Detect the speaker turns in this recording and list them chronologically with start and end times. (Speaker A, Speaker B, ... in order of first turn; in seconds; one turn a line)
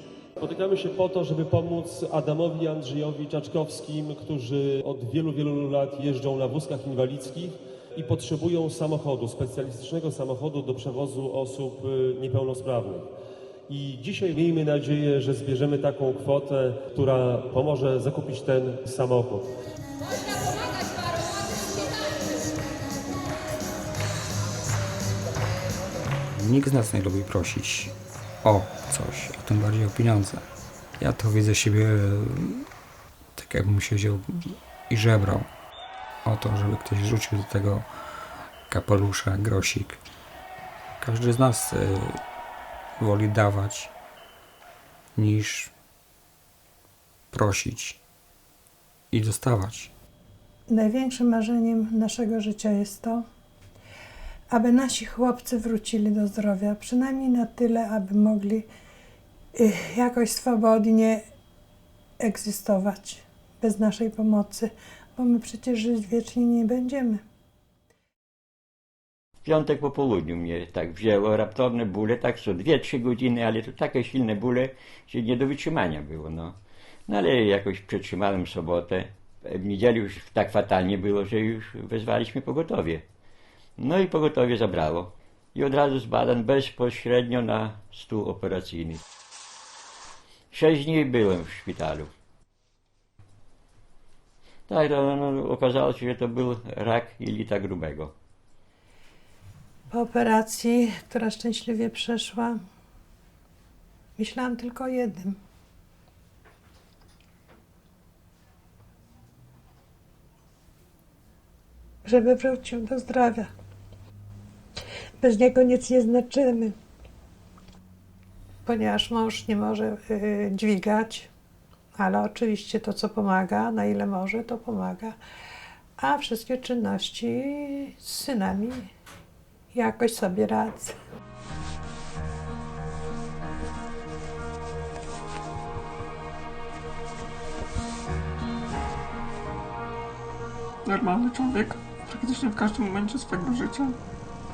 Speaker A: 0.4-13.1
Speaker A: 13.7-19.5
Speaker B: 26.3-30.4
Speaker B: 31.0-32.7
Speaker B: 33.4-35.5
Speaker B: 36.2-37.9
Speaker B: 38.7-40.0
Speaker B: 41.0-42.2
Speaker B: 43.0-43.9
Speaker B: 45.2-45.7
Speaker B: 47.3-48.0
Speaker B: 49.1-49.9
Speaker C: 50.7-53.2
Speaker C: 54.5-58.7
Speaker C: 59.6-61.2
Speaker C: 62.2-67.2
Speaker D: 69.5-76.5
Speaker D: 77.1-83.0
Speaker D: 83.8-89.0
Speaker D: 90.5-92.1
Speaker D: 94.7-98.1
Speaker C: 99.9-102.6
Speaker C: 104.2-105.4
Speaker C: 112.0-113.5
Speaker C: 115.2-116.8
Speaker C: 118.7-121.3
Speaker C: 122.0-125.2
Speaker C: 126.0-128.9
Speaker C: 129.7-131.0
Speaker E: 140.8-143.9